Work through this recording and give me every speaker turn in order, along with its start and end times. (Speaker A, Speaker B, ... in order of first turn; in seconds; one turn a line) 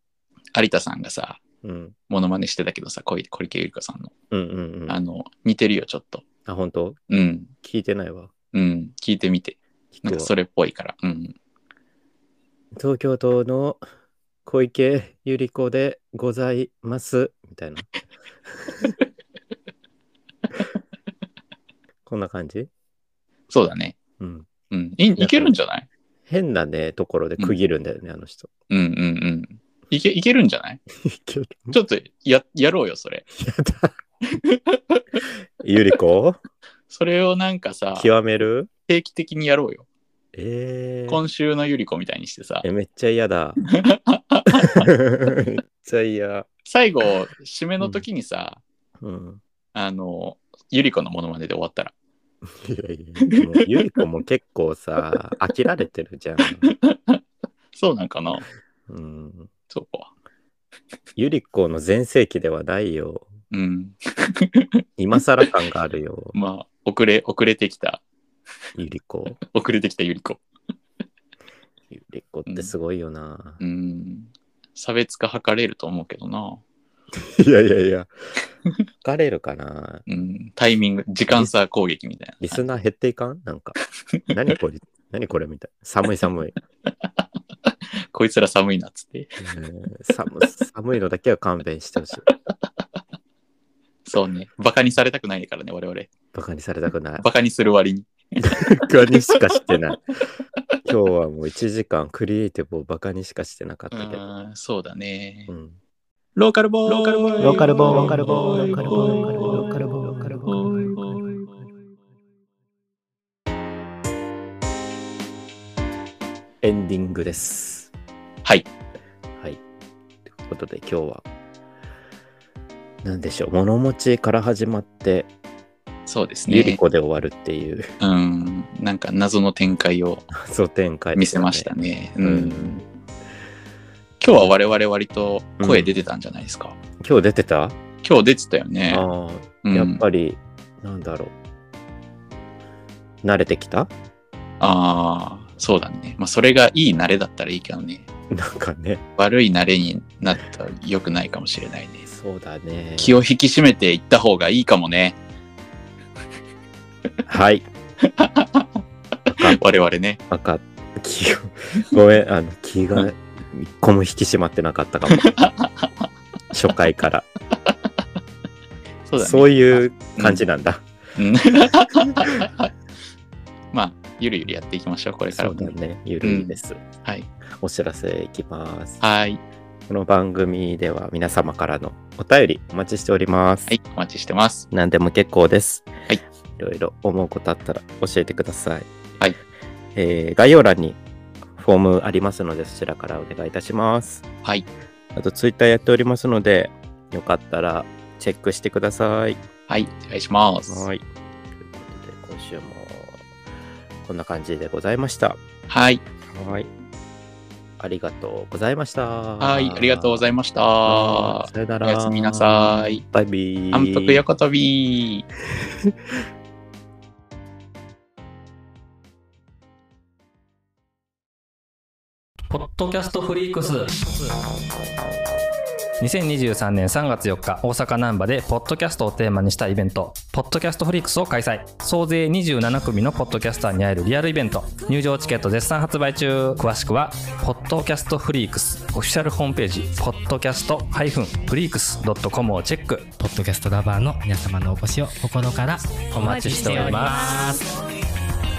Speaker A: 0.5-1.4
Speaker B: 1.6-1.9
Speaker A: 2.1-4.1
Speaker B: 4.3-5.0
Speaker A: 4.9-6.2
Speaker B: 6.5-7.0
Speaker A: 7.1-7.5
Speaker B: 7.6-8.3
Speaker A: 8.5-11.3
Speaker B: 9.9-10.3
Speaker B: 12.7-13.8
Speaker B: 14.4-17.9
Speaker B: 18.5-18.9
Speaker B: 22.1-22.7
Speaker A: 23.5-24.0
Speaker B: 24.2-24.5
Speaker A: 24.7-25.9
Speaker B: 25.2-25.5
Speaker B: 26.3-28.5
Speaker A: 28.7-30.8
Speaker B: 31.0-31.8
Speaker A: 31.7-33.2
Speaker B: 33.3-33.9
Speaker A: 34.4-35.2
Speaker B: 35.6-36.4
Speaker A: 36.9-38.1
Speaker B: 37.9-38.7
Speaker A: 38.9-39.8
Speaker B: 40.3-41.2
Speaker A: 41.1-42.6
Speaker B: 42.6-43.6
Speaker A: 43.8-44.9
Speaker B: 44.6-46.5
Speaker A: 46.6-48.6
Speaker B: 49.0-49.4
Speaker A: 49.7-51.9
Speaker B: 52.5-56.7
Speaker A: 53.2-53.7
Speaker A: 56.5-57.2
Speaker A: 57.7-58.5
Speaker B: 58.9-59.5
Speaker A: 59.7-60.1
Speaker B: 61.1-63.3
Speaker A: 63.5-64.7
Speaker B: 65.0-66.3
Speaker A: 66.3-68.0
Speaker B: 68.8-69.4
Speaker A: 69.5-70.4
Speaker B: 71.9-73.6
Speaker A: 73.6-76.6
Speaker B: 77.1-78.1
Speaker B: 79.0-80.0
Speaker A: 80.1-82.6
Speaker B: 82.4-83.8
Speaker B: 84.3-86.5
Speaker A: 88.1-89.5
Speaker B: 89.4-92.2
Speaker A: 94.0-96.1
Speaker B: 96.3-97.2
Speaker A: 97.2-99.7
Speaker B: 98.4-100.1
Speaker B: 100.8-104.2
Speaker A: 103.9-105.5
Speaker B: 105.5-105.8
Speaker A: 106.3-111.5
Speaker B: 107.4-111.0
Speaker B: 116.6-117.9
Speaker B: 120.3-121.2
Speaker B: 123.0-125.3
Speaker A: 126.1-126.8
Speaker B: 126.5-127.9
Speaker A: 128.0-130.2
Speaker B: 130.3-131.7
Speaker A: 131.1-132.8
Speaker B: 132.2-132.8
Speaker A: 134.2-136.8
Speaker B: 135.6-135.9
Speaker B: 137.0-137.8
Speaker A: 138.0-139.1
Speaker B: 138.9-141.3
Speaker A: 139.6-140.0
Speaker B: 143.2-143.9
Speaker A: 144.6-148.1
Speaker B: 148.3-149.0
Speaker A: 149.2-152.1
Speaker B: 152.1-153.1
Speaker A: 153.0-155.2
Speaker B: 157.3-157.7
Speaker A: 158.1-158.6
Speaker B: 159.3-159.6
Speaker A: 159.4-160.2
Speaker B: 160.3-165.4
Speaker A: 165.1-165.9
Speaker B: 166.5-167.3
Speaker A: 169.1-170.4
Speaker B: 169.2-170.8
Speaker A: 171.2-172.7
Speaker A: 173.7-177.3
Speaker B: 175.3-176.8
Speaker B: 177.5-179.0
Speaker A: 179.0-179.4
Speaker B: 179.9-183.7
Speaker A: 183.7-184.7
Speaker B: 184.7-185.9
Speaker B: 186.6-188.9
Speaker B: 189.9-191.0
Speaker B: 191.5-194.2
Speaker B: 195.1-199.4
Speaker A: 199.7-200.9
Speaker B: 200.7-203.2
Speaker B: 204.0-205.4
Speaker A: 205.7-206.0
Speaker B: 206.2-206.7
Speaker B: 207.8-210.3
Speaker A: 209.4-213.0
Speaker B: 210.8-214.2
Speaker A: 213.7-215.2
Speaker C: 222.5-223.9
Speaker C: 226.0-243.1
Speaker D: 243.2-247.7
Speaker C: 246.2-247.5
Speaker B: 246.2-247.1